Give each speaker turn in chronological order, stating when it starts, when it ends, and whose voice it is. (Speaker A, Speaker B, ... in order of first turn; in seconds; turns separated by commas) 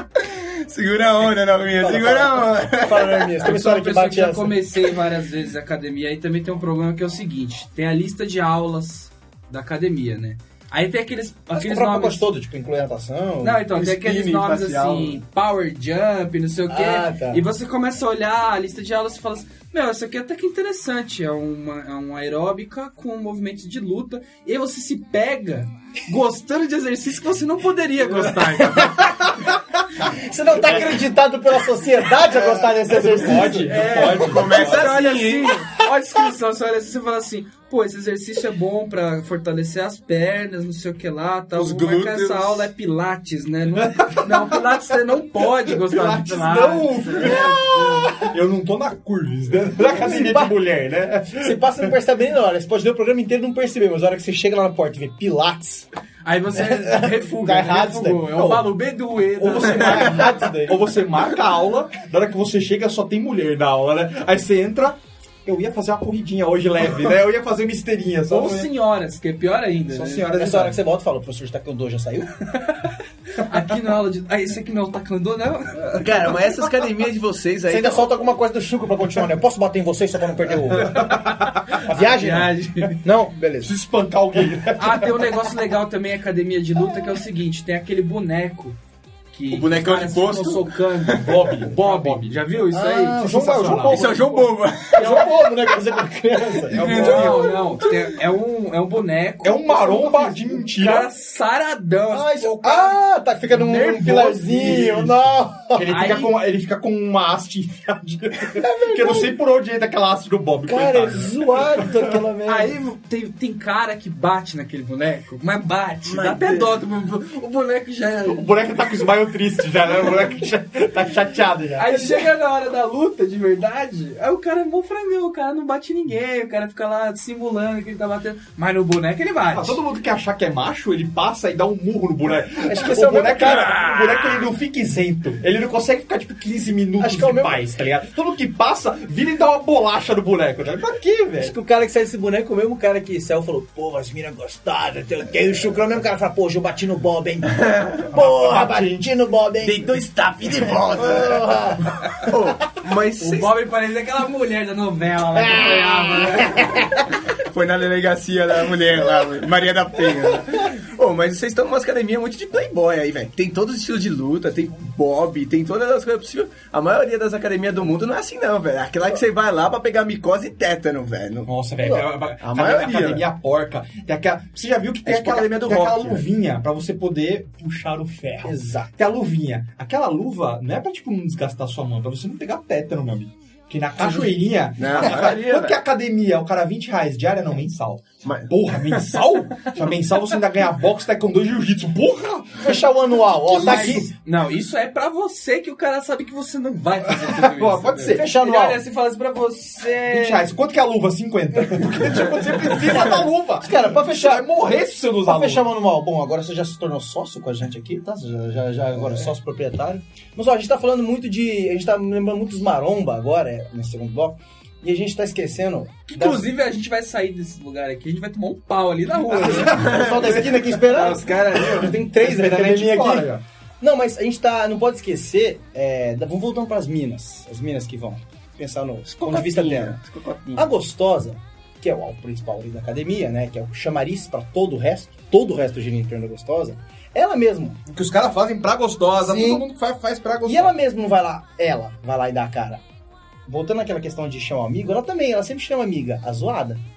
Speaker A: 0.2-3.4, Speaker B: 1.8-4.7, Speaker C: 3.4-12.2, Speaker B: 11.5-13.7, Speaker C: 13.4-29.0, Speaker A: 13.7-15.2, Speaker B: 16.7-17.4, Speaker B: 28.6-29.4, Speaker B: 30.0-34.0, Speaker D: 32.9-34.9, Speaker C: 33.6-47.8, Speaker A: 34.0-35.6, Speaker A: 41.5-42.7, Speaker D: 43.9-44.7, Speaker D: 45.7-51.9, Speaker B: 47.3-48.3, Speaker B: 49.8-50.6, Speaker B: 51.3-55.9, Speaker C: 56.2-60.3, Speaker B: 56.5-58.6, Speaker B: 59.4-60.8, Speaker D: 59.5-68.7, Speaker C: 68.3-70.3, Speaker D: 69.9-70.8, Speaker B: 70.3-72.3, Speaker C: 72.6-76.0, Speaker A: 75.9-78.1, Speaker B: 77.7-81.2, Speaker D: 80.9-81.8, Speaker C: 81.0-83.0, Speaker B: 81.8-83.7, Speaker D: 83.6-85.3, Speaker C: 84.8-88.8, Speaker C: 89.3-93.8, Speaker A: 89.5-91.3, Speaker D: 91.2-92.3, Speaker B: 92.7-94.4, Speaker D: 93.1-94.3, Speaker A: 93.9-95.2, Speaker B: 94.9-97.3, Speaker D: 96.7-97.5, Speaker C: 96.7-103.0, Speaker A: 96.8-97.6, Speaker D: 99.4-101.1, Speaker B: 102.1-106.0, Speaker D: 103.7-112.1, Speaker C: 103.7-104.3, Speaker C: 105.9-106.3, Speaker B: 108.5-109.4, Speaker B: 110.6-112.8, Speaker C: 112.5-118.5, Speaker A: 116.0-116.8, Speaker D: 118.2-122.2, Speaker C: 121.8-129.8, Speaker D: 129.5-141.5, Speaker B: 132.6-134.0, Speaker B: 137.0-137.6, Speaker B: 141.4-150.0, Speaker A: 147.6-148.0, Speaker D: 148.1-149.0, Speaker A: 149.6-151.5, Speaker B: 150.7-151.9, Speaker A: 152.2-153.6, Speaker C: 153.2-156.9, Speaker B: 155.3-157.0, Speaker A: 157.3-171.5, Speaker D: 171.4-192.8, Speaker B: 171.8-172.1, Speaker A: 172.4-173.2, Speaker A: 175.0-176.2, Speaker B: 178.4-178.9, Speaker A: 184.8-185.8, Speaker A: 188.2-189.2, Speaker B: 192.6-194.1, Speaker C: 193.5-200.5, Speaker D: 193.6-194.0, Speaker D: 197.2-198.2, Speaker B: 198.0-198.8, Speaker D: 200.0-205.6, Speaker B: 202.9-204.5, Speaker B: 205.1-216.5, Speaker C: 216.1-219.9, Speaker B: 219.4-230.0, Speaker A: 219.7-221.9, Speaker D: 222.1-223.4, Speaker A: 229.1-230.7, Speaker B: 230.5-237.8, Speaker D: 237.9-240.7, Speaker B: 239.2-239.6, Speaker B: 240.4-242.8, Speaker B: 243.4-246.8